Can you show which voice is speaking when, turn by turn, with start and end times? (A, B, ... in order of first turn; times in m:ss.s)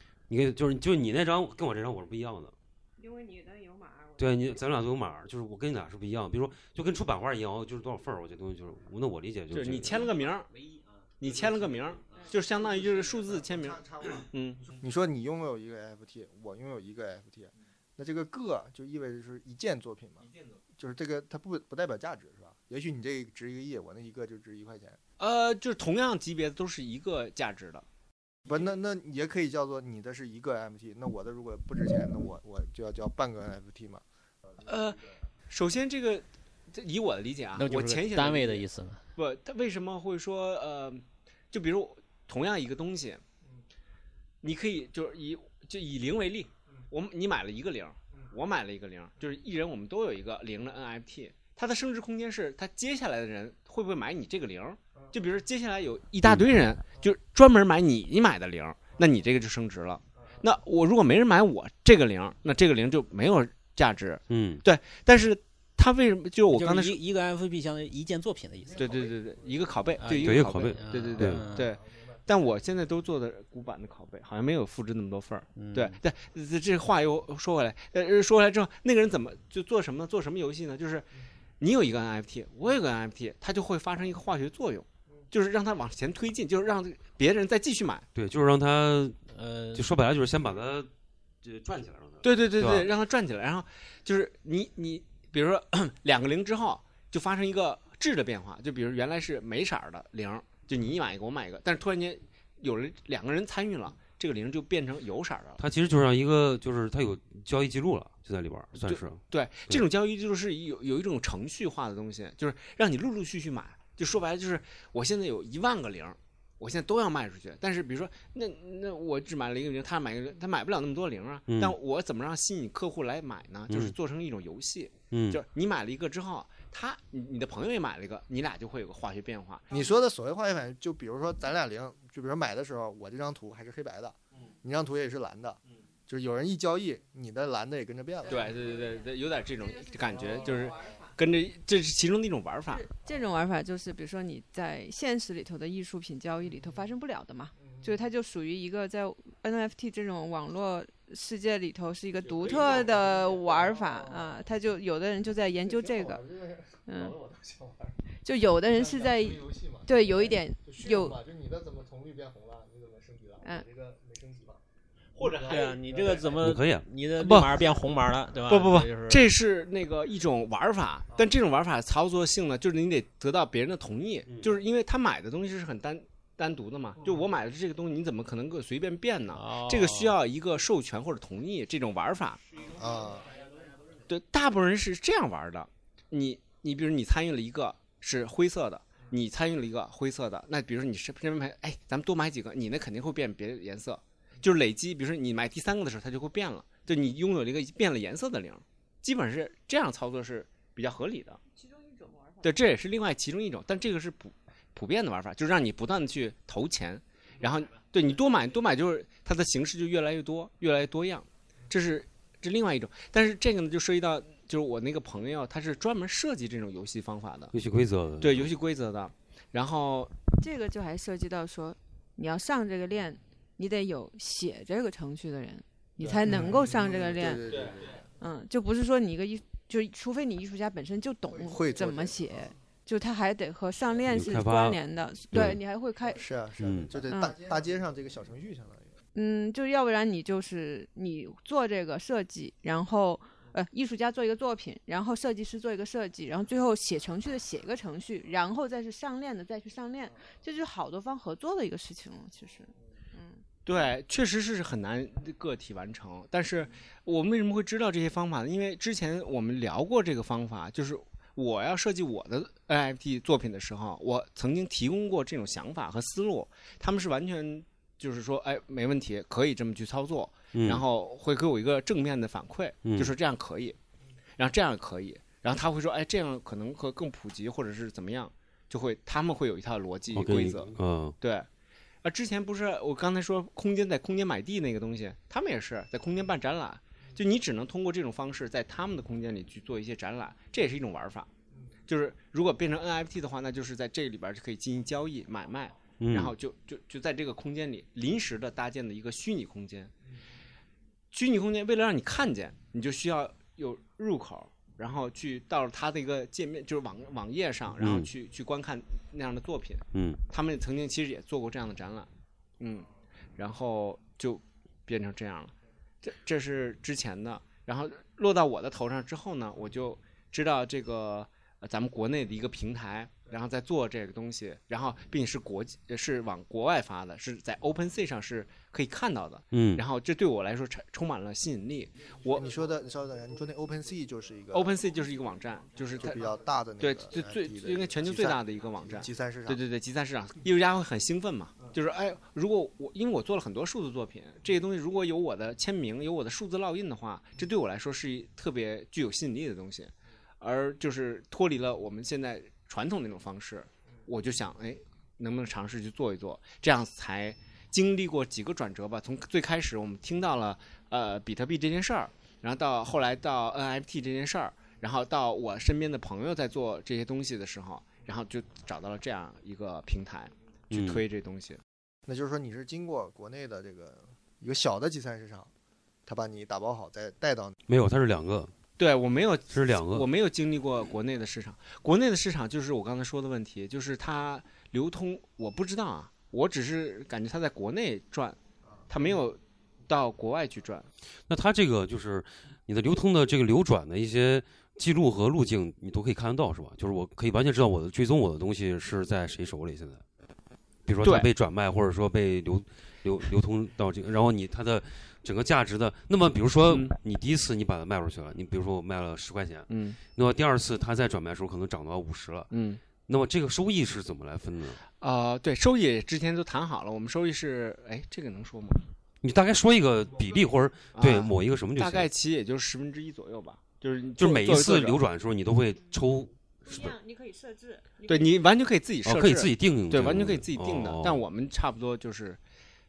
0:00.3-0:02.5 A
0:03.0-0:04.4 B
0:04.2-0:10.1 A
0:09.5-0:10.5 C
0:11.2-0:14.7 C
0:12.1-0:12.4 B
0:13.7-0:14.2 D
0:14.8-0:25.0 D
0:25.2-0:27.8 C
0:28.4-0:34.0 D
0:34.6-0:43.2 C
0:37.6-0:39.0 E
0:44.4-1:07.0 C
1:04.3-1:04.6 A
1:06.5-1:09.0 E
1:08.8-1:28.1 C
1:10.0-1:11.7 E
1:10.1-1:11.5 A
1:15.6-1:16.0 E
1:28.1-1:29.2 A
1:29.3-1:29.9 E
1:29.7-1:30.9 A
1:31.4-1:32.9 A
1:32.2-1:45.6 C
1:45.6-1:49.8 A
1:48.8-2:09.7 C
2:01.5-2:01.8 A
2:03.7-2:03.9 A
2:05.1-2:05.4 A
2:09.7-2:18.7 D
2:18.2-2:21.2 B
2:18.3-2:22.8 C
2:20.1-2:20.6 D
2:22.7-2:36.2 F
2:27.6-2:28.0 D
2:32.2-2:34.4 D
2:32.4-2:32.9 C
2:35.6-2:38.0 D
2:36.8-2:37.2 F
2:38.2-2:41.2 F
2:38.7-2:44.6 D
2:45.1-2:46.3 C
2:45.2-2:46.4 D
2:45.5-2:49.3 E
2:46.4-2:46.9 A
2:47.2-2:47.6 C
2:48.5-3:02.7 C
2:54.3-2:54.6 A
2:59.3-3:00.1 E
3:02.7-3:03.4 D
3:04.1-3:21.4 C
3:21.5-3:22.6 B
3:22.4-3:37.5 C
3:37.5-3:38.5 A
3:38.2-3:40.1 C
3:40.4-3:47.5 F
3:46.0-3:48.0 D
3:46.2-3:46.5 C
3:47.5-3:48.0 C
3:48.2-3:56.3 F
3:51.3-3:52.5 D
3:54.1-3:54.8 A
3:55.3-3:55.6 A
3:56.0-3:58.9 D
3:56.6-3:56.9 A
3:57.0-3:57.5 F
3:59.1-4:13.4 F
4:13.6-4:33.8 C
4:30.5-4:30.8 A
4:32.8-4:33.1 A
4:34.4-4:41.5 C
4:40.1-4:41.1 A
4:42.0-4:51.3 C
4:51.9-4:59.9 C
4:56.0-4:56.3 A
5:01.1-5:12.1 C
5:07.8-5:08.1 A
5:09.9-5:10.2 A
5:12.6-5:32.5 C
5:29.5-5:29.8 A
5:32.3-5:34.8 D
5:34.5-6:11.6 C
5:35.9-5:39.6 D
6:10.7-6:11.0 A
6:12.0-6:15.5 D
6:16.0-6:17.5 D
6:17.7-6:18.5 A
6:18.8-6:28.4 C
6:19.5-6:20.1 A
6:28.9-6:30.9 C
6:31.3-6:40.0 A
6:40.8-6:52.5 A
6:41.0-6:41.3 C
6:46.7-6:47.0 C
6:49.7-6:50.0 C
6:52.5-6:52.8 C
6:53.0-6:54.8 A
6:55.0-6:58.8 C
6:59.2-7:02.1 A
7:00.9-7:05.0 C
7:04.2-7:07.0 A
7:05.8-7:08.5 B
7:08.1-7:12.4 C
7:09.0-7:11.2 A